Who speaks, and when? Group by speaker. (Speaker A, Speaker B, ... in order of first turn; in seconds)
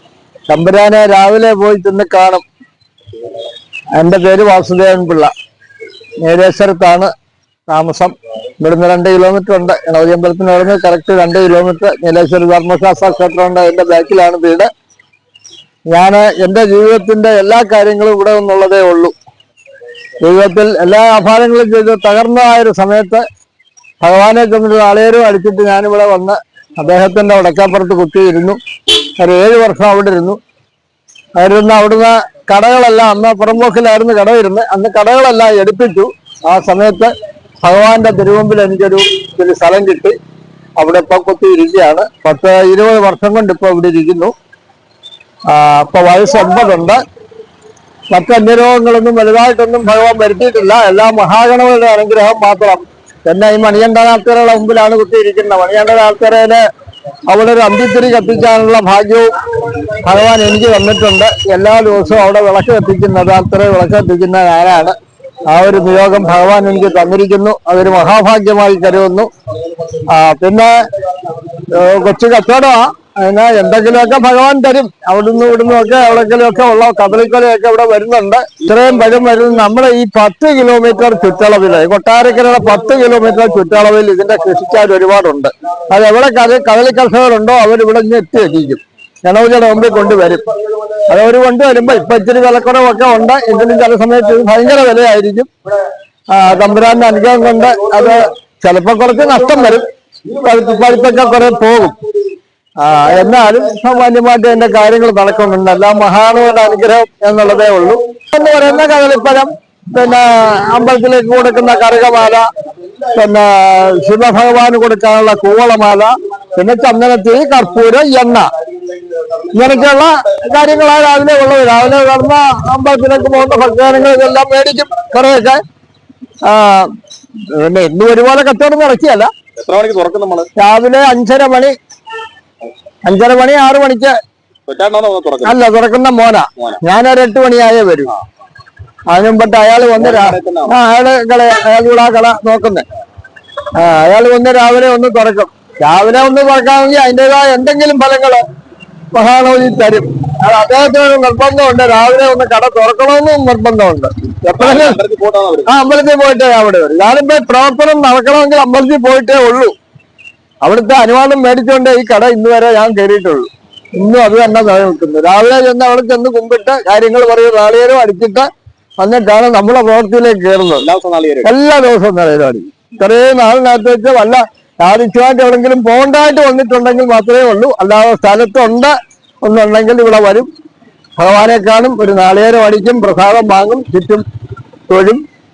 Speaker A: 0.5-2.4, 4.0-5.3, 6.2-7.1, 7.7-14.7, 15.9-19.1, 20.2-23.2, 24.0-28.6, 29.2-30.4, 31.4-37.1, 37.6-40.1, 40.8-44.3, 45.5-47.0, 48.1-56.6, 57.3-59.4, 60.0-64.9, 65.5-69.3, 70.1-70.8, 71.6-90.5, 91.1-95.5, 96.3-102.0, 102.8-112.5, 113.1-118.5, 119.5-125.6, 126.4-126.9, 127.5-129.3, 130.6-131.8, 133.0-134.2, 135.4-138.1, 139.1-142.9, 143.8-148.4, 149.1-155.0, 155.7-159.7, 160.6-168.5, 169.0-170.8, 171.4-180.5, 181.2-184.2, 184.9-185.2
Speaker B: 129.6-130.5, 134.7-135.6, 140.0-140.8, 154.6-155.7, 170.8-171.5